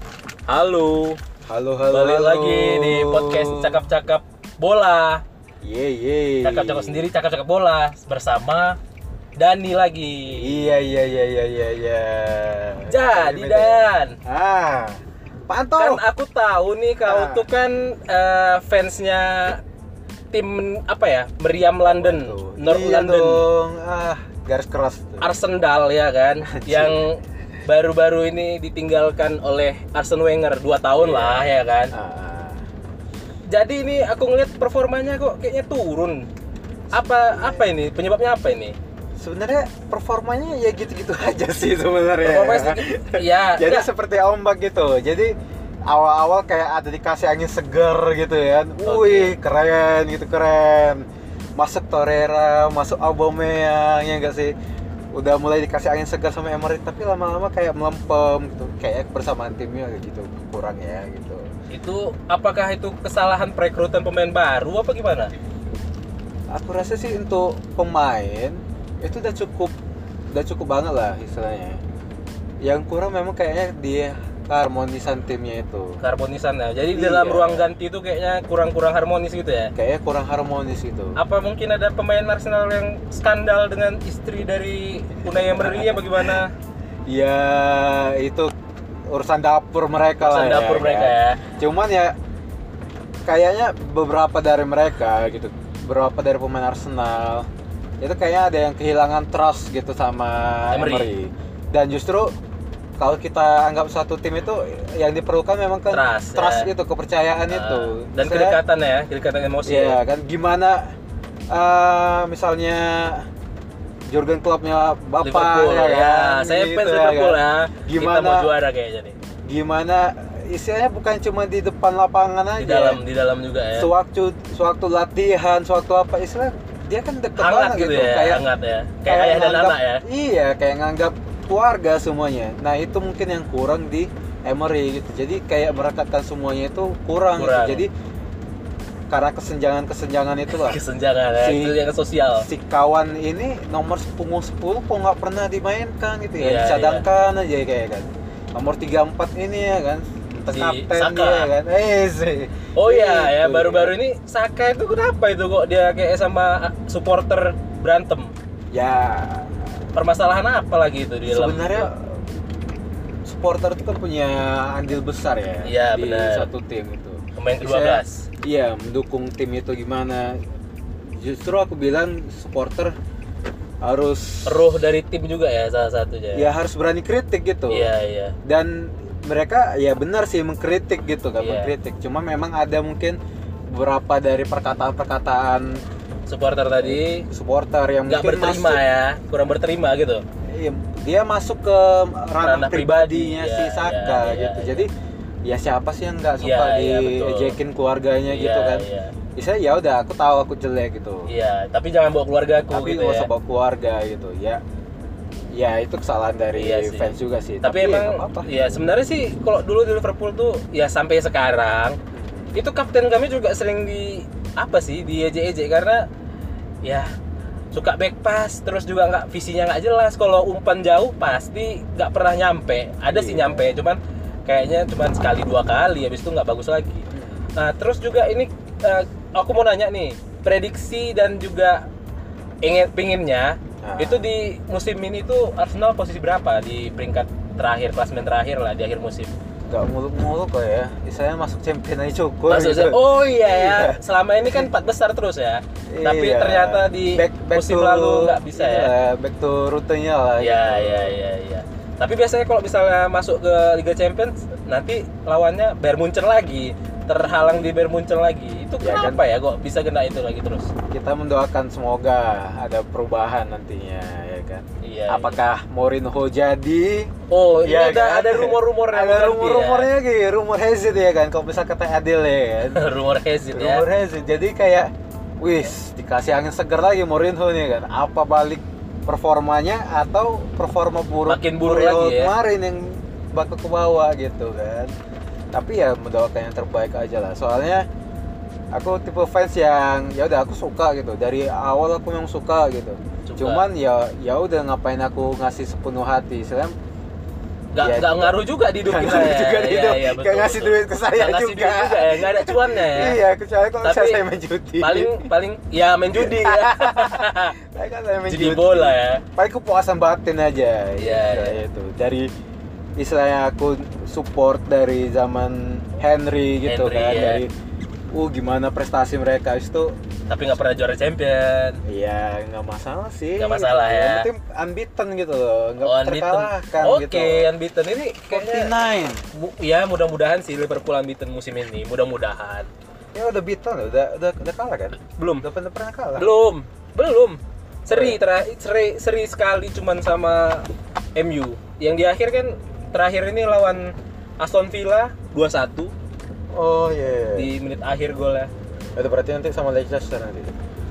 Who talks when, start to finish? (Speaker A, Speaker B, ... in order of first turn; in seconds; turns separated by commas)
Speaker A: 0.5-1.2, Speaker B: 1.5-3.8, Speaker A: 1.9-5.2, Speaker B: 5.6-7.1, Speaker A: 6.4-8.8, Speaker A: 9.3-10.9, Speaker B: 10.3-16.0, Speaker A: 12.9-14.2, Speaker A: 15.8-19.6, Speaker B: 17.0-17.5, Speaker A: 20.3-23.5, Speaker B: 21.8-25.3, Speaker A: 25.2-31.9, Speaker B: 26.4-27.1, Speaker B: 30.9-32.6, Speaker A: 33.5-36.3, Speaker B: 36.9-37.7, Speaker A: 36.9-38.8, Speaker B: 39.2-45.3, Speaker A: 42.2-43.9, Speaker B: 45.9-54.5, Speaker A: 48.8-49.4, Speaker B: 55.1-61.5, Speaker A: 61.7-65.3, Speaker B: 66.5-69.7, Speaker B: 70.3-71.8, Speaker B: 72.6-76.0, Speaker A: 76.0-79.7, Speaker B: 76.9-77.7, Speaker B: 79.7-81.2, Speaker A: 81.2-86.5, Speaker B: 85.3-86.4, Speaker B: 87.1-88.5, Speaker B: 89.1-92.2, Speaker A: 90.2-91.5, Speaker B: 93.2-97.5, Speaker B: 98.0-102.3, Speaker A: 100.7-101.2, Speaker B: 103.0-108.6, Speaker A: 105.9-106.7, Speaker A: 107.5-110.0, Speaker B: 109.6-111.0, Speaker B: 111.5-113.3, Speaker B: 114.1-118.5, Speaker A: 115.2-119.2, Speaker B: 119.5-123.0, Speaker A: 122.6-123.9, Speaker B: 123.7-128.4, Speaker A: 127.4-130.0, Speaker B: 129.0-137.9, Speaker A: 137.3-137.8, Speaker B: 139.1-140.8, Speaker A: 140.5-142.5, Speaker B: 141.3-141.8, Speaker B: 142.3-153.9, Speaker A: 146.4-147.1, Speaker A: 150.5-151.5, Speaker A: 152.7-158.3, Speaker B: 158.7-159.6, Speaker A: 159.9-161.9, Speaker B: 161.2-162.2, Speaker B: 163.2-170.4, Speaker A: 165.6-166.5, Speaker A: 167.3-168.3, Speaker B: 171.0-172.9, Speaker B: 173.8-174.8, Speaker A: 174.4-176.5, Speaker B: 176.3-177.9, Speaker A: 177.7-178.3, Speaker B: 178.4-185.8, Speaker A: 181.4-181.7, Speaker A: 186.3-187.2, Speaker B: 186.8-188.8, Speaker A: 188.1-190.2, Speaker B: 190.5-194.9, Speaker A: 192.4-194.9, Speaker B: 195.4-201.3, Speaker A: 196.4-197.6, Speaker A: 198.3-199.2, Speaker A: 201.3-203.3, Speaker B: 202.7-204.6, Speaker B: 205.5-208.5, Speaker A: 206.5-212.0, Speaker B: 212.1-212.6, Speaker A: 212.5-216.1, Speaker A: 216.8-217.1, Speaker A: 217.7-231.9, Speaker B: 223.1-223.7, Speaker B: 227.1-227.5, Speaker A: 232.6-239.3, Speaker B: 233.8-234.3, Speaker B: 239.7-244.7, Speaker A: 242.5-248.9, Speaker B: 245.9-251.2, Speaker A: 250.4-260.7, Speaker B: 257.2-257.7, Speaker B: 258.8-259.2, Speaker B: 260.9-272.8, Speaker A: 264.8-265.4, Speaker A: 267.3-269.9, Speaker A: 272.7-273.9, Speaker B: 273.5-284.9, Speaker A: 281.2-282.4, Speaker B: 285.5-287.9, Speaker B: 288.7-296.7, Speaker A: 293.2-293.6, Speaker A: 297.7-303.2, Speaker B: 297.8-305.3, Speaker A: 303.8-304.2, Speaker A: 304.8-307.6, Speaker B: 306.1-312.3, Speaker A: 308.3-309.2, Speaker A: 311.0-311.6, Speaker B: 313.0-317.5, Speaker A: 316.6-317.4, Speaker B: 318.1-320.0, Speaker A: 320.3-321.8, Speaker B: 321.9-327.5, Speaker A: 323.4-324.3, Speaker A: 325.8-328.7, Speaker B: 328.3-329.2, Speaker A: 329.3-332.7, Speaker B: 333.1-336.3, Speaker A: 335.0-335.5, Speaker A: 336.1-345.9, Speaker B: 337.9-338.2, Speaker B: 346.5-347.5, Speaker A: 347.3-348.5, Speaker B: 348.9-350.5